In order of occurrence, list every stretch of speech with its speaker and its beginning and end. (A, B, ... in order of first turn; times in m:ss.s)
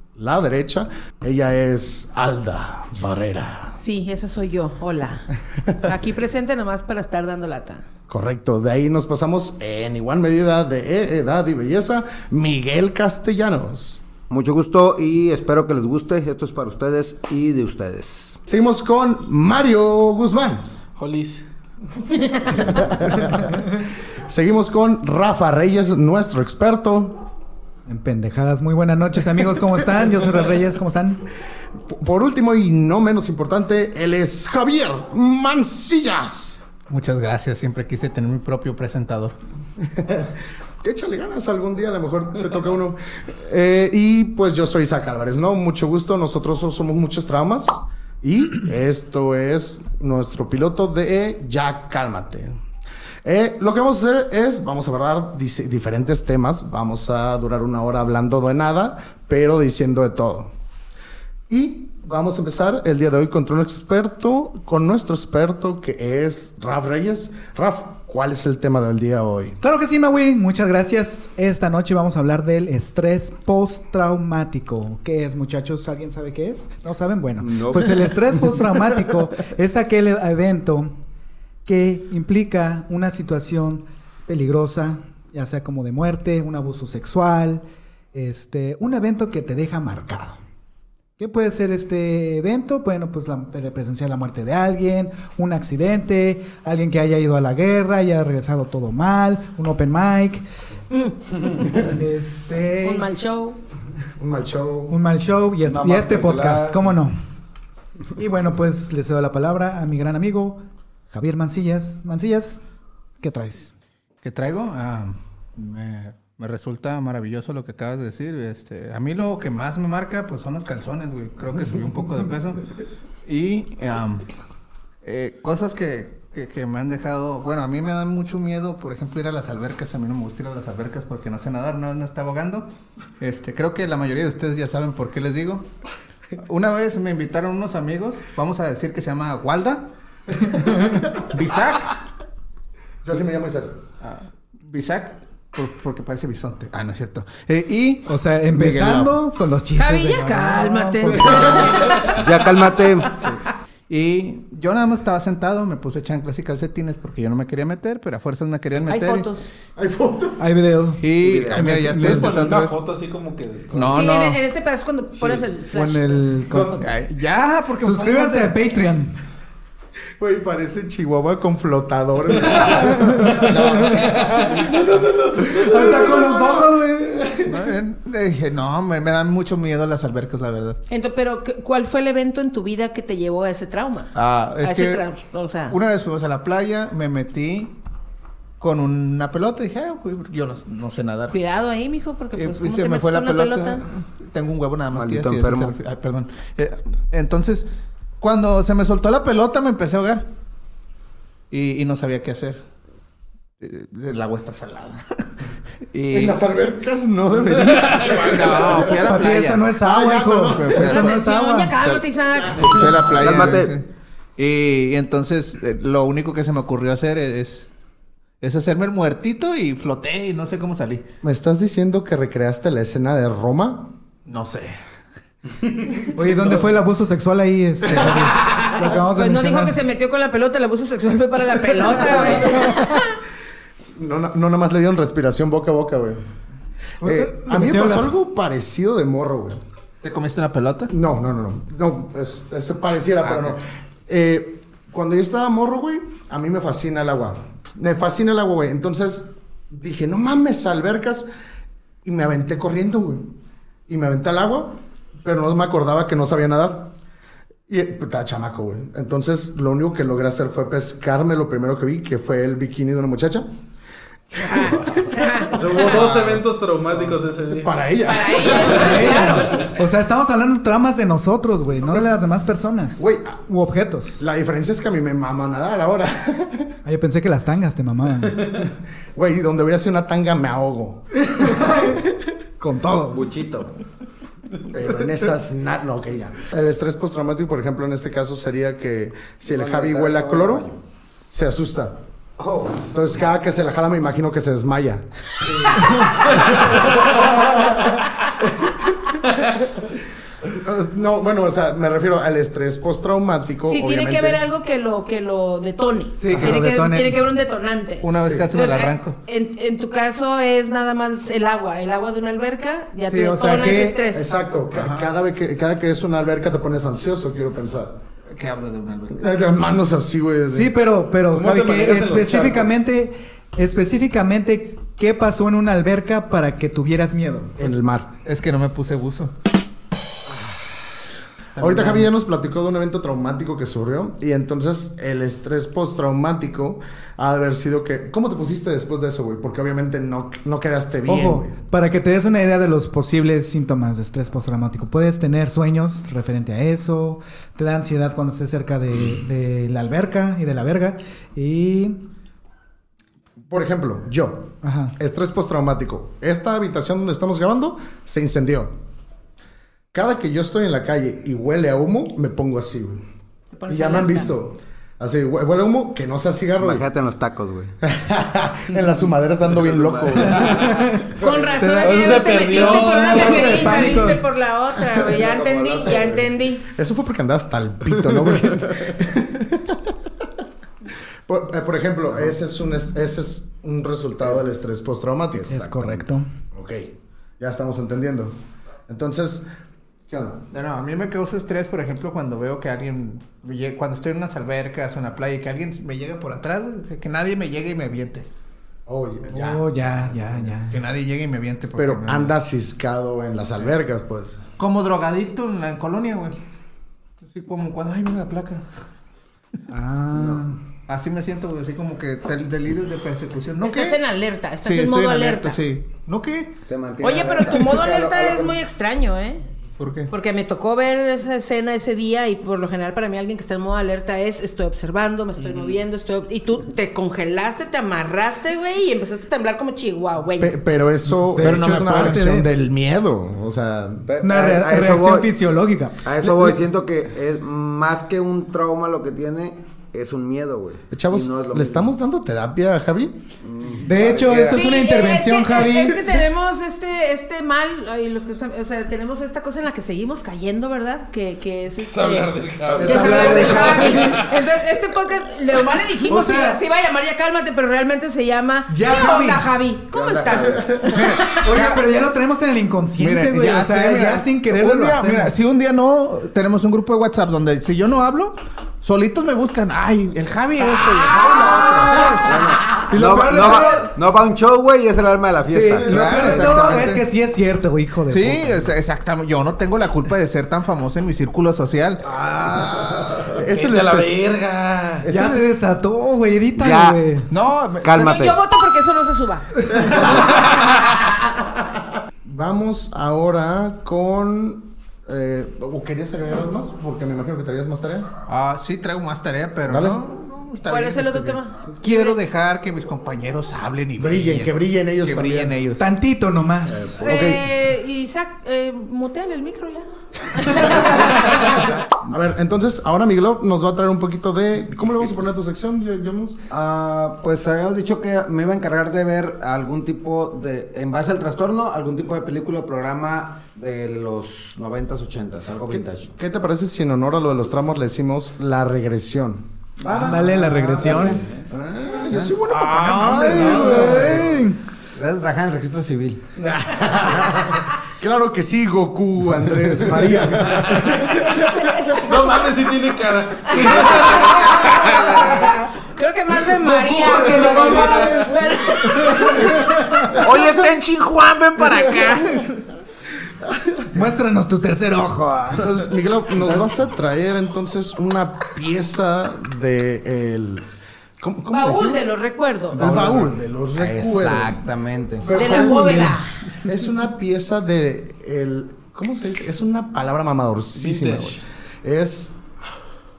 0:00.2-0:03.7 A
0:03.8-0:07.8 B
0:08.1-0:14.0 A
0:14.3-0:18.4 C
0:18.5-0:20.6 A
0:21.0-0:21.4 D
0:22.5-0:23.7 A
0:24.3-0:27.2 A
0:27.8-0:31.2 E
0:31.9-0:36.6 A
0:36.9-0:39.4 F
0:39.9-0:52.5 A
0:53.2-1:00.5 A
1:01.5-1:09.6 A
1:09.6-1:20.9 E
1:17.5-1:17.9 C
1:21.6-1:27.6 E
1:28.1-1:30.4 E
1:31.2-1:40.4 E
1:41.6-1:43.1 E
1:42.8-1:43.6 B
1:44.2-1:45.0 A
1:44.9-1:47.1 E
1:45.6-1:46.9 D
1:48.2-1:52.6 E
1:53.2-1:53.7 E
1:54.2-2:02.6 F
2:03.2-2:04.3 F
2:05.0-2:12.7 F
2:13.2-2:15.7 F
2:16.4-2:19.9 F
2:21.3-2:22.0 F
2:23.0-2:23.8 A
2:24.0-2:29.2 F
2:28.0-2:31.9 E
2:29.8-2:32.0 B
2:32.1-2:33.1 C
2:33.2-2:39.3 F
2:38.9-2:39.5 B
2:39.8-2:40.4 A
2:40.4-2:42.3 E
2:41.0-2:42.8 F
2:41.5-2:44.1 D
2:43.7-2:44.4 F
2:43.9-2:46.8 B
2:45.7-2:46.8 E
2:46.6-2:48.6 F
2:47.8-2:49.1 E
2:50.2-2:56.6 A
2:53.4-2:54.6 F
2:54.2-2:55.8 D
2:55.5-2:57.4 E
2:57.4-3:00.8 F
3:00.9-3:05.8 B
3:04.1-3:05.0 F
3:05.7-3:07.7 F
3:08.6-3:11.4 F
3:11.3-3:13.8 B
3:12.4-3:20.2 F
3:14.9-3:15.8 C
3:21.5-3:22.6 F
3:23.6-3:25.2 F
3:25.9-3:26.4 F
3:26.1-3:29.0 A
3:27.6-3:28.3 D
3:28.1-3:29.7 F
3:29.0-3:31.8 E
3:29.8-3:31.0 A
3:30.5-3:31.2 F
3:30.8-3:33.0 B
3:31.8-3:33.8 F
3:32.5-3:33.6 A
3:33.2-3:33.7 C
3:34.4-3:37.7 F
3:38.4-3:41.0 F
3:41.2-3:43.9 A
3:44.2-3:44.8 F
3:46.1-3:49.8 E
3:48.4-3:53.2 B
3:52.1-3:52.7 A
3:54.0-3:56.2 A
3:57.0-3:58.1 E
3:57.0-3:59.6 A
4:00.0-4:00.9 F
4:00.9-4:11.3 A
4:03.2-4:03.6 F
4:12.0-4:13.3 A
4:13.9-4:16.9 A
4:17.7-4:23.4 A
4:24.4-4:25.8 B
4:24.4-4:26.4 A
4:25.5-4:27.8 D
4:27.5-4:29.2 A
4:28.0-4:29.7 B
4:28.5-4:29.7 D
4:28.6-4:34.2 E
4:33.0-4:33.4 A
4:34.2-4:36.7 A
4:36.8-4:38.5 E
4:38.6-4:41.1 A
4:41.3-4:42.0 E
4:42.6-4:43.3 E
4:43.1-4:43.7 C
4:44.7-4:50.7 A
4:49.4-4:50.8 C
4:51.3-4:52.0 A
4:52.4-4:52.9 C
4:52.8-4:55.0 A
4:55.7-4:56.9 A
4:58.4-4:58.7 A
5:00.4-5:04.4 A
5:03.7-5:14.3 B
5:06.2-5:07.2 E
5:06.3-5:06.6 A
5:08.0-5:09.2 F
5:08.2-5:08.5 A
5:13.1-5:14.0 E
5:14.1-5:18.0 A
5:14.7-5:15.1 F
5:18.3-5:19.5 F
5:19.1-5:20.7 A
5:20.5-5:27.6 E
5:21.3-5:22.7 D
5:27.6-5:28.1 A
5:28.2-5:29.3 F
5:31.6-5:32.1 F
5:31.6-5:41.5 A
5:41.0-5:52.0 E
5:53.5-5:58.7 A
5:54.6-5:54.9 E
5:59.9-6:03.0 A
6:03.5-6:04.3 B
6:03.7-6:06.8 A
6:06.6-6:07.8 C
6:07.8-6:10.6 A
6:09.5-6:10.6 C
6:10.3-6:11.1 D
6:10.5-6:14.2 E
6:11.1-6:16.6 B
6:11.8-6:14.1 D
6:15.1-6:16.3 C
6:16.7-6:19.9 A
6:21.2-6:26.0 A
6:25.5-6:26.3 E
6:26.5-6:28.3 A
6:28.9-6:29.5 A
6:30.1-6:30.4 A
6:30.5-6:38.3 F
6:38.9-6:39.7 A
6:39.3-6:40.8 E
6:40.6-6:42.3 F
6:41.8-6:44.4 A
6:44.6-6:46.3 F
6:47.2-6:48.6 F
6:49.7-6:50.6 E
6:50.9-6:54.0 F
6:53.6-6:55.6 B
6:54.6-6:56.6 F
6:56.6-6:58.6 C
6:57.0-6:59.4 B
6:59.8-7:00.1 F
7:00.1-7:10.6 B
7:10.4-7:14.0 A
7:11.2-7:12.5 E
7:14.0-7:15.3 C
7:14.2-7:16.4 E
7:16.0-7:21.9 C
7:20.9-7:23.2 A
7:23.4-7:24.6 C
7:23.8-7:26.0 E
7:24.4-7:41.1 B
7:31.8-7:34.4 D
7:32.7-7:34.3 E
7:36.0-7:36.6 E
7:38.7-7:39.5 E
7:39.9-7:41.8 C
7:40.8-7:45.3 E
7:43.0-7:44.2 A
7:44.5-7:52.1 F
7:50.8-7:52.1 B
7:51.8-7:53.9 E
7:52.0-7:56.9 C
7:55.5-7:58.6 E
7:55.7-7:56.5 A
7:56.1-7:57.0 F
7:58.1-8:02.1 F
8:02.2-8:05.1 D
8:03.3-8:04.2 A
8:05.0-8:05.5 A
8:05.0-8:07.3 E
8:06.6-8:07.0 C
8:07.3-8:07.9 F
8:07.8-8:08.4 C
8:08.0-8:09.7 B
8:12.2-8:18.1 A
8:18.3-8:25.8 F
8:19.7-8:20.0 A
8:20.7-8:22.2 B
8:24.0-8:25.6 A
8:25.8-8:27.0 E
8:26.7-8:27.4 A
8:27.0-8:31.3 B
8:30.6-8:30.8 A
8:32.0-8:36.4 A
8:36.5-8:46.1 C
8:45.7-8:54.3 A
8:49.9-8:51.2 E
8:50.4-8:51.2 C
8:52.5-8:53.9 D
8:53.1-8:54.6 E
8:53.3-8:54.3 C
8:54.9-8:57.6 C
8:56.8-8:57.4 A
8:58.0-9:01.5 A
9:00.0-9:05.6 D
9:03.6-9:09.5 B
9:06.7-9:08.3 E
9:06.9-9:08.3 D
9:09.0-9:10.2 E
9:09.0-9:09.5 D
9:10.2-9:12.6 F
9:13.9-9:15.8 E
9:15.5-9:20.6 A
9:16.4-9:16.7 C
9:21.2-9:22.0 A
9:21.5-9:22.9 B
9:22.8-9:24.6 A
9:22.8-9:23.3 E
9:23.7-9:25.9 C
9:25.2-9:32.4 A
9:25.3-9:26.3 B
9:25.8-9:26.1 E
9:30.7-9:31.4 D